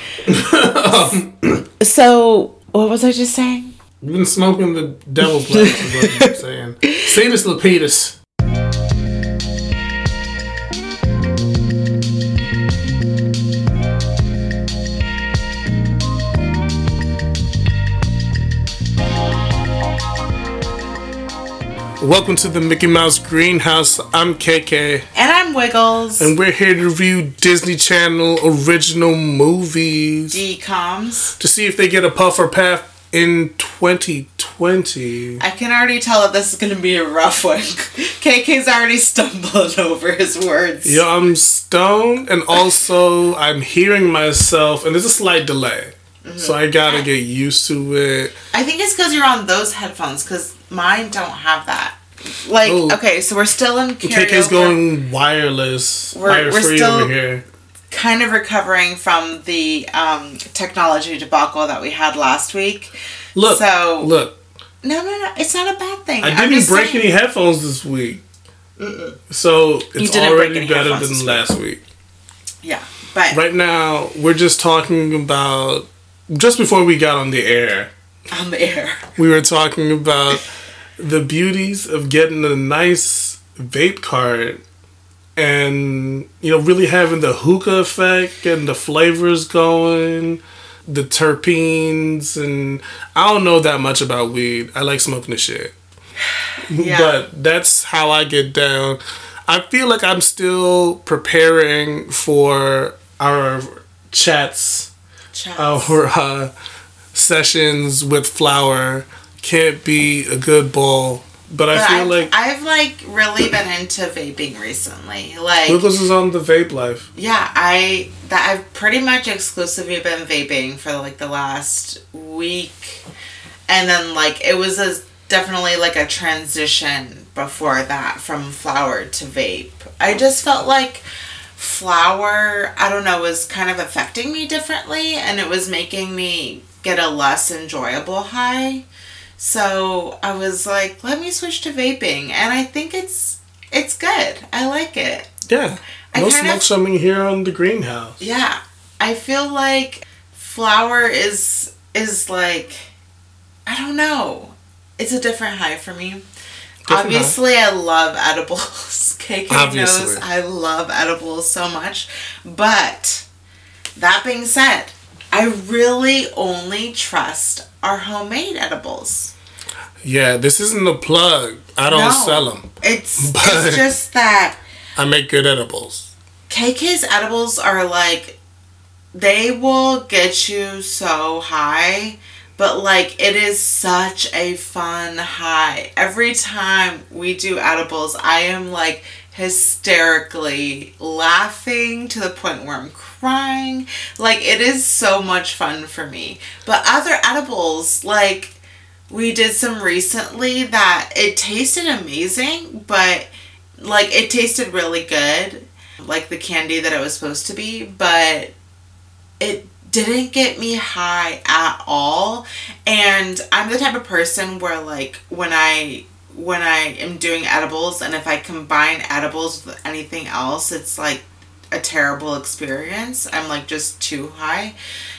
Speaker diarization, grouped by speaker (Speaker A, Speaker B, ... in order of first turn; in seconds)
Speaker A: 0.3-1.6, 4.0-8.2, 22.0-25.1, 26.2-30.4, 31.4-35.4, 40.8-48.3, 52.6-53.0, 54.0-57.4, 63.4-64.4, 66.2-68.2, 69.3-71.8, 73.3-77.9, 79.2-80.5, 81.0-84.6, 85.4-95.7, 96.7-104.9, 105.6-106.5, 107.1-112.3, 115.7-117.1, 145.5-148.2, 156.9-157.3, 159.5-160.2, 170.0-172.7, 173.2-173.8, 174.9-176.1
Speaker B: 1.8-3.8, 5.5-6.3, 6.8-7.1, 25.1-26.3, 30.3-31.3, 35.4-41.0, 46.2-47.0, 48.5-54.8, 56.1-57.1, 57.9-62.9, 63.5-64.1, 64.8-67.0, 68.8-69.1, 70.0-71.4, 72.6-73.4, 78.3-79.0, 96.4-97.2, 105.3-106.0, 111.7-115.8, 117.2-123.0, 123.7-131.0, 131.6-138.8, 139.4-145.3, 146.1-146.6, 148.2-152.9, 153.7-156.2, 156.9-163.2, 163.9-169.3, 171.8-174.6, 176.5-178.4, 179.1-198.6, 199.1-203.3, 203.8-208.5, 209.4-224.8